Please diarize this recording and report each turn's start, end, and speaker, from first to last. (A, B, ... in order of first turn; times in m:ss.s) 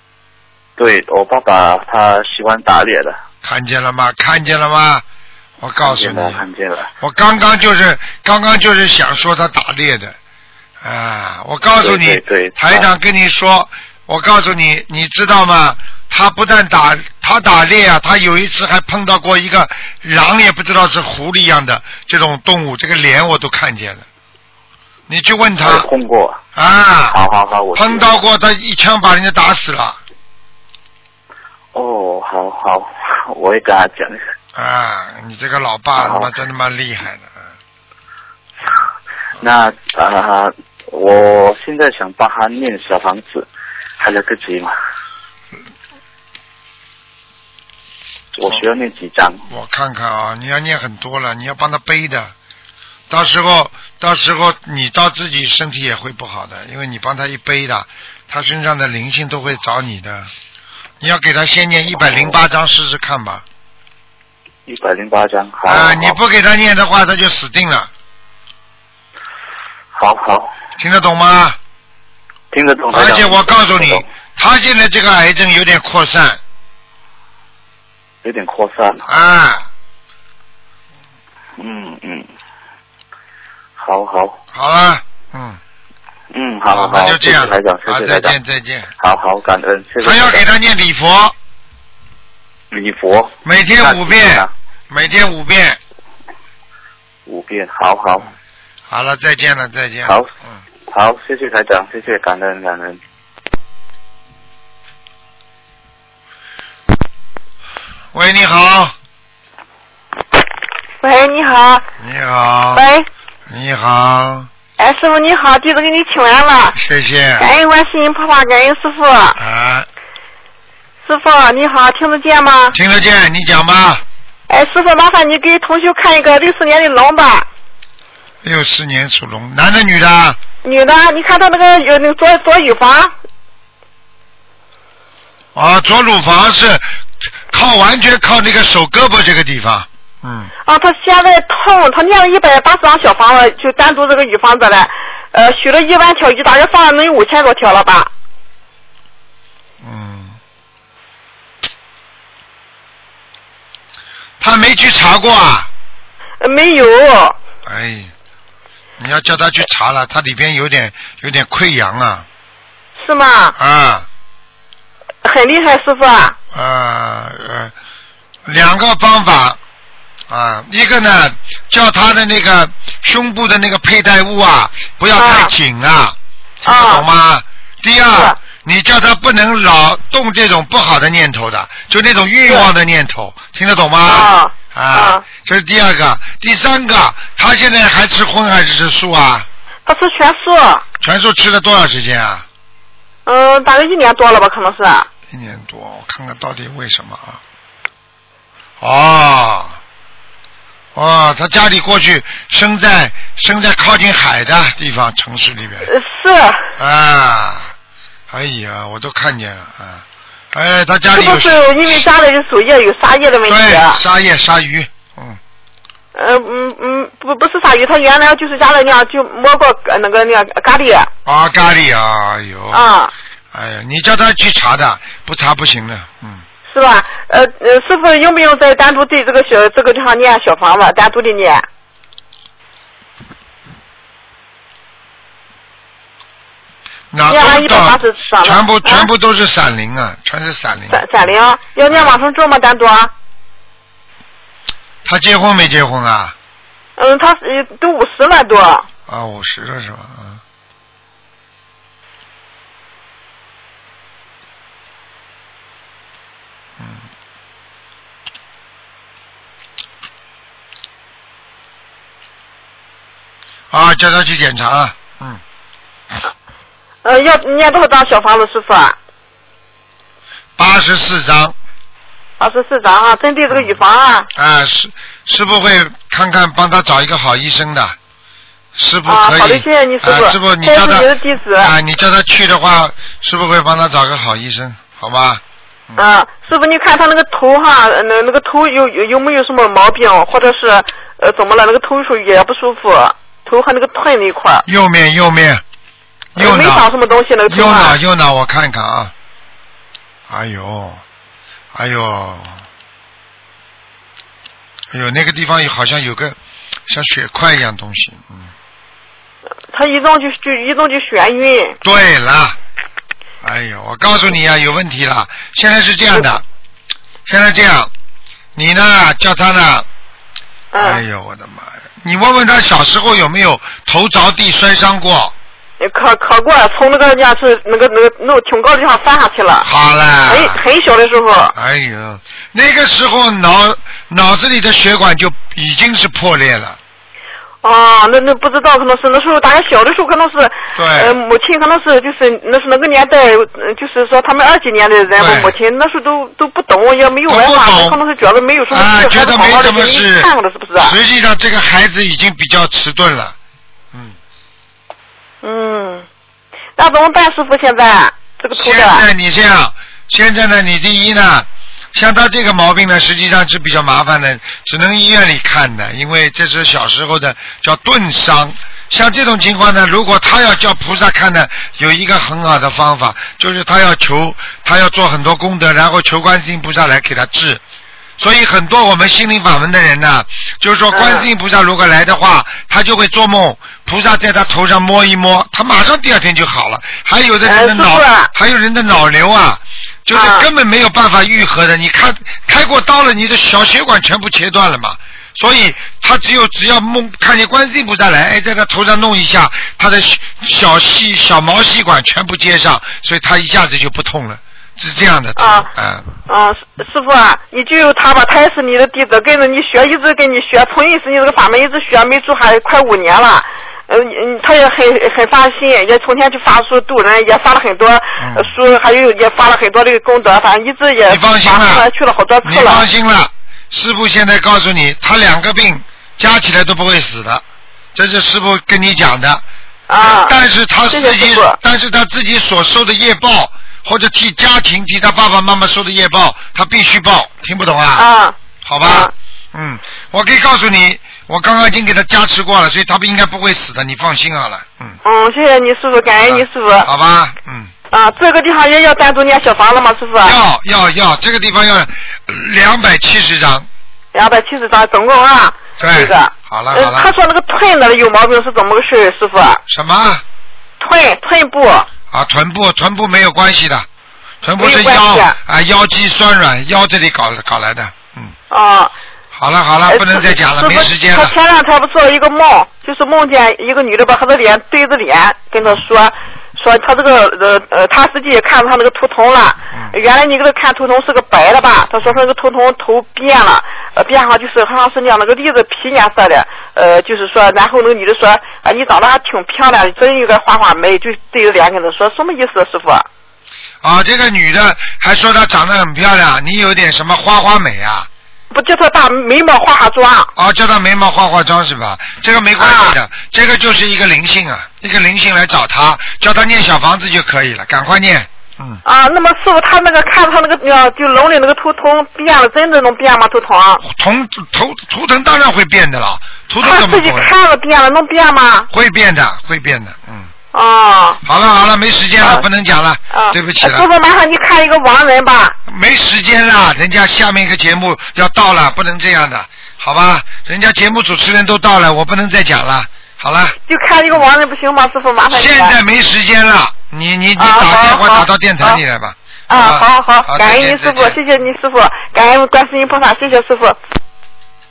0:00.8-0:03.2 A
0:03.4-0:05.0 B
0:05.6-0:06.4 B
0:05.8-0:06.9 A
0:07.0-0:10.2 B
0:10.8-0:24.0 B
0:11.8-0:12.9 A
0:25.1-0:25.9 B
0:25.6-0:26.4 A
0:26.5-0:27.2 B
0:27.1-0:28.2 A
0:27.8-0:30.0 B
0:31.7-0:34.2 A
0:34.5-0:37.5 B
0:36.0-0:36.3 A
0:39.4-0:43.5 A
0:44.0-0:44.7 A
0:48.3-0:49.4 A
0:49.5-0:52.3 B
0:53.1-1:00.3 B
1:01.0-1:03.4 B
1:02.0-1:02.4 A
1:04.6-1:06.2 A
1:05.6-1:07.9 B
1:09.9-1:10.5 A
1:10.8-1:11.6 B
1:12.5-1:14.0 A
1:12.9-1:16.4 B
1:18.2-1:19.0 A
1:19.1-1:19.6 B
1:21.6-1:22.3 A
1:23.8-1:24.4 A
1:24.5-1:25.6 B
1:26.3-1:28.4 A
1:26.7-1:28.9 B
1:29.0-1:30.5 A
1:30.0-1:31.3 B
1:32.7-1:34.5 A
1:33.4-1:35.8 B
1:37.2-1:38.3 A
1:38.9-1:40.6 B
1:40.0-1:40.3 A
1:40.9-1:43.0 A
1:48.1-1:48.9 B
1:51.0-1:51.8 C
1:52.0-1:52.8 B
1:52.7-1:53.1 C
1:53.5-1:54.5 B
1:54.8-1:56.8 C
1:56.7-1:57.5 B
1:57.4-1:59.4 C
1:59.4-1:59.9 B
2:01.0-2:02.8 C
2:02.7-2:04.0 B
2:04.5-2:07.5 C
2:08.4-2:10.4 B
2:10.6-2:13.1 C
2:15.5-2:16.8 B
2:17.5-2:20.5 B
2:20.6-2:28.1 C
2:29.8-2:30.4 B
2:34.4-2:35.7 B
2:36.4-2:37.4 C
2:37.6-2:38.1 B
2:39.0-2:42.2 B
2:43.0-2:43.6 C
2:43.6-2:44.0 B
2:45.2-2:46.4 C
2:46.5-2:47.7 B
2:48.4-2:49.6 B
2:50.3-3:09.5 B
2:55.1-2:55.5 C
2:56.6-2:57.0 C
3:04.0-3:05.2 C
3:09.8-3:10.8 C
3:11.0-3:12.4 B
3:13.2-3:15.1 C
3:15.3-3:17.4 B
3:18.8-3:19.8 B
3:20.9-3:25.9 B
3:25.8-3:26.7 C
3:26.8-3:27.7 B
3:28.3-3:32.0 B
3:31.1-3:34.0 C
3:33.4-3:35.4 B
3:36.1-3:41.1 C
3:41.2-3:42.9 B
3:42.7-3:43.1 C
3:43.5-3:46.4 B
3:46.7-3:51.6 C
3:57.1-4:01.2 B
3:57.3-3:59.1 C
4:00.9-4:03.1 C
4:01.8-4:02.2 B
4:05.0-4:06.3 B
4:07.0-4:08.8 C
4:09.1-4:10.4 B
4:16.8-4:17.0 B
4:23.7-4:25.4 B
4:27.0-4:29.0 C
4:30.6-4:31.6 B
4:32.4-4:34.3 C
4:34.3-4:38.0 B
4:38.7-4:46.0 B
4:39.0-4:41.7 C
4:46.0-4:54.6 C
4:54.6-4:55.6 B
4:56.3-4:56.8 B
4:56.4-4:58.0 C
4:57.4-4:59.1 B
5:00.3-5:01.0 B
5:01.7-5:02.6 B
5:04.9-5:06.4 B
5:06.9-5:08.5 B
5:09.7-5:11.8 C
5:11.8-5:12.6 B
5:13.4-5:16.4 B
5:17.2-5:17.9 B
5:18.5-5:19.8 B
5:20.7-5:21.0 C
5:20.8-5:25.3 B
5:25.8-5:29.7 C
5:29.6-5:30.6 B
5:30.3-5:31.5 C
5:31.5-5:36.8 B
5:37.6-5:51.0 C
5:40.7-5:41.2 B
5:45.1-5:45.5 B
5:47.3-5:48.0 B
5:48.7-5:53.4 B
5:55.4-5:56.0 C
5:56.8-5:59.0 C
5:58.5-6:17.6 B
6:18.2-6:46.1 B
6:20.9-6:21.3 C
6:27.4-6:28.3 C
6:30.1-6:30.5 C
6:45.4-6:45.7 C
6:46.3-7:02.9 C
6:58.2-6:58.5 B
7:01.1-7:01.9 B
7:02.4-7:07.4 B
7:07.9-7:09.4 B
7:09.9-7:10.3 C
7:10.0-7:18.0 B
7:10.9-7:11.6 C
7:17.9-7:19.1 C
7:18.6-7:25.0 B
7:25.0-7:26.9 C
7:26.2-7:27.7 B
7:27.9-7:30.4 C
7:30.2-7:33.7 B
7:34.1-7:39.6 C
7:35.8-7:37.1 B
7:39.7-7:40.2 B
7:40.8-7:41.9 C
7:42.1-7:43.9 B
7:44.4-7:48.3 B
7:44.6-7:45.4 C
7:48.5-7:48.9 C
7:49.3-7:51.3 B
7:49.9-8:13.1 C
8:13.8-8:18.1 B
8:18.5-8:20.3 C
8:20.3-8:28.8 B
8:22.6-8:23.0 C
8:28.8-8:33.8 C
8:33.8-8:37.3 B
8:36.6-8:38.7 C
8:38.7-8:40.3 B
8:40.5-8:41.2 C
8:41.2-8:43.9 B
8:43.1-8:45.6 C
8:45.6-8:53.6 B
8:53.7-8:55.7 C
8:55.3-9:01.2 B
8:57.4-8:58.8 C
8:59.5-9:03.8 C